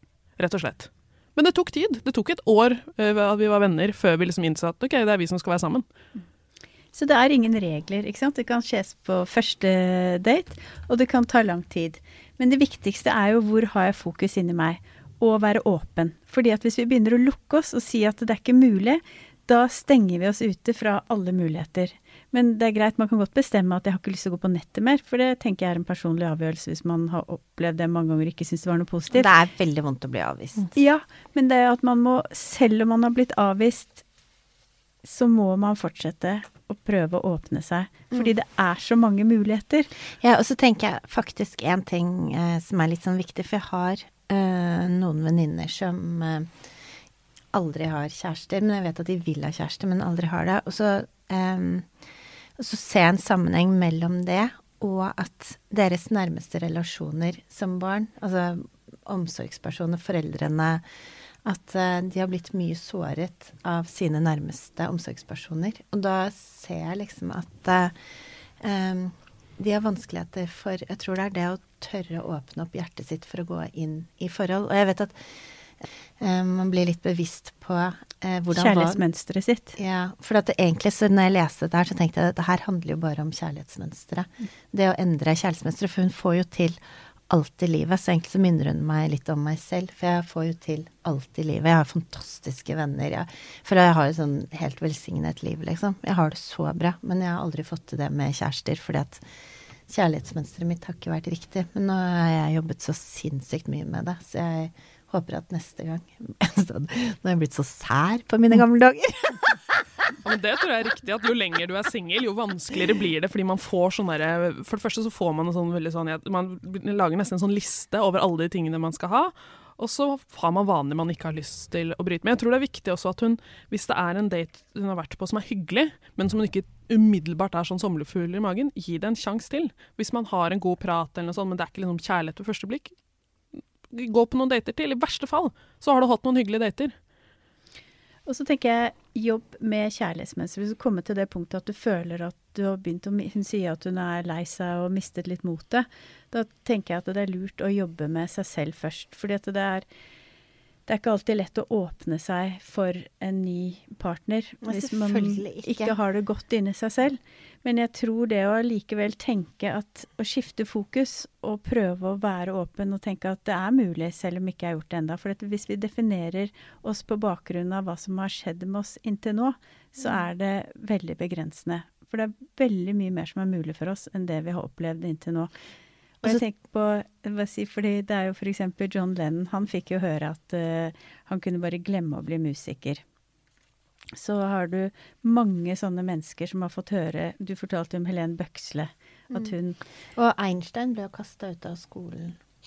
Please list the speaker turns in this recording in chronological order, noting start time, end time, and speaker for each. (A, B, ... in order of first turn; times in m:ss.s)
0:00.4-0:05.8 A
0:06.9-0:29.3 B
0:29.1-0:30.7 C
0:30.7-0:34.0 B
0:35.0-0:39.9 B
0:40.2-0:46.5 C
0:47.5-0:51.9 C
0:52.6-1:00.8 C
1:01.4-1:07.9 C
1:08.6-1:15.2 C
1:16.2-1:19.0 C
1:18.5-1:19.8 B
1:19.8-1:26.8 C
1:27.3-1:39.2 C
1:39.9-1:49.9 C
1:50.2-2:12.9 A
2:13.9-2:16.9 A
2:18.3-2:29.9 B
2:30.9-2:55.5 B
2:34.6-2:36.0 C
2:56.2-3:03.0 B
3:04.1-3:09.8 B
3:09.3-3:09.6 C
3:10.2-3:12.4 C